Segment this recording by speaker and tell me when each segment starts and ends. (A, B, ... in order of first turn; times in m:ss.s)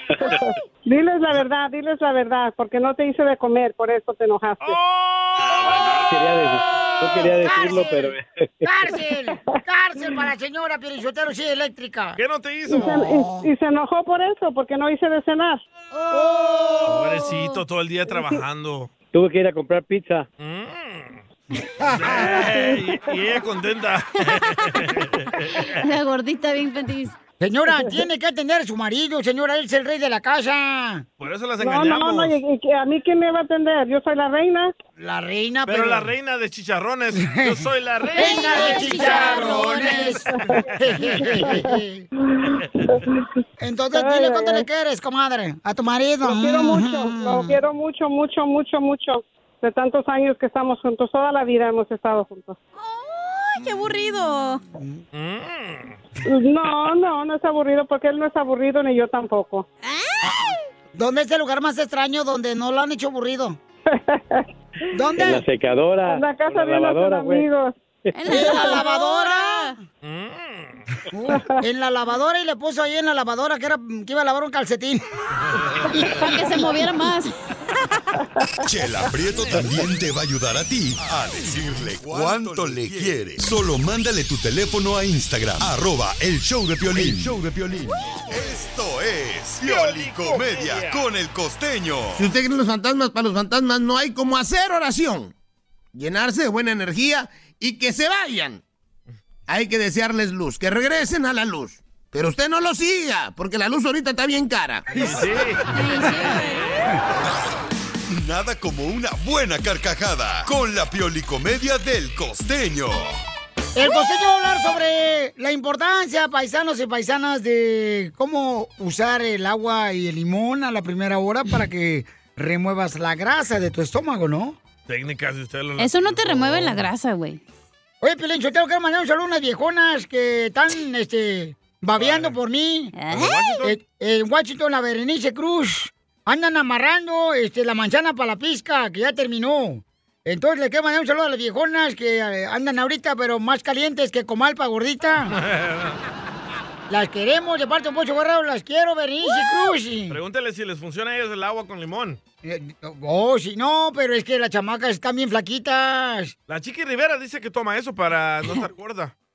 0:00.2-0:04.8 A
0:04.6-0:05.9 B
0:05.6-0:08.7 C
0:06.7-0:08.1 D
0:08.6-0:13.5 D
0:12.2-0:13.0 B
0:12.7-0:15.6 A
0:15.9-0:17.6 E
0:16.1-0:17.0 D
0:16.8-0:18.9 B
0:19.1-0:20.2 C
0:20.4-0:21.2 B
0:21.8-0:22.3 D
0:21.9-0:25.6 B
0:25.6-0:27.2 E
0:27.4-0:31.0 D
0:31.2-0:32.4 B
0:31.6-0:34.7 A
0:35.0-0:36.1 D
0:35.7-0:40.1 B
0:37.2-0:37.5 D
0:38.1-0:42.1 D
0:38.3-0:39.8 E
0:38.7-0:39.2 A
0:39.9-0:40.6 A
0:41.2-0:43.2 A
0:43.6-0:47.6 D
0:44.0-0:44.6 A
0:46.2-0:52.6 A
0:52.8-0:54.6 E
0:55.1-0:56.0 B
0:56.2-0:59.6 A
0:59.8-1:00.6 E
1:00.2-1:03.6 D
1:03.9-1:04.4 A
1:04.9-1:05.4 D
1:05.2-1:07.5 C
1:06.1-1:07.7 A
1:08.1-1:09.7 E
1:08.3-1:09.7 D
1:10.0-1:10.8 B
1:11.1-1:15.0 D
1:15.5-1:16.0 B
1:16.0-1:16.3 D
1:16.2-1:17.3 E
1:18.7-1:32.3 F
1:19.4-1:19.6 B
1:29.6-1:31.0 B
1:32.2-1:35.3 G
1:35.9-1:38.6 G
1:39.5-1:44.8 G
1:44.9-1:45.6 B
1:44.9-1:45.3 D
1:45.7-1:46.8 E
1:48.1-1:53.2 F
1:53.7-2:04.6 D
2:04.9-2:06.8 B
2:05.8-2:07.4 E
2:08.0-2:12.9 D
2:12.0-2:12.4 B
2:13.0-2:13.6 E
2:13.1-2:13.8 B
2:13.6-2:25.4 D
2:25.4-2:26.0 B
2:26.9-2:30.2 D
2:30.1-2:32.2 B
2:32.4-2:36.3 D
2:36.5-2:39.1 B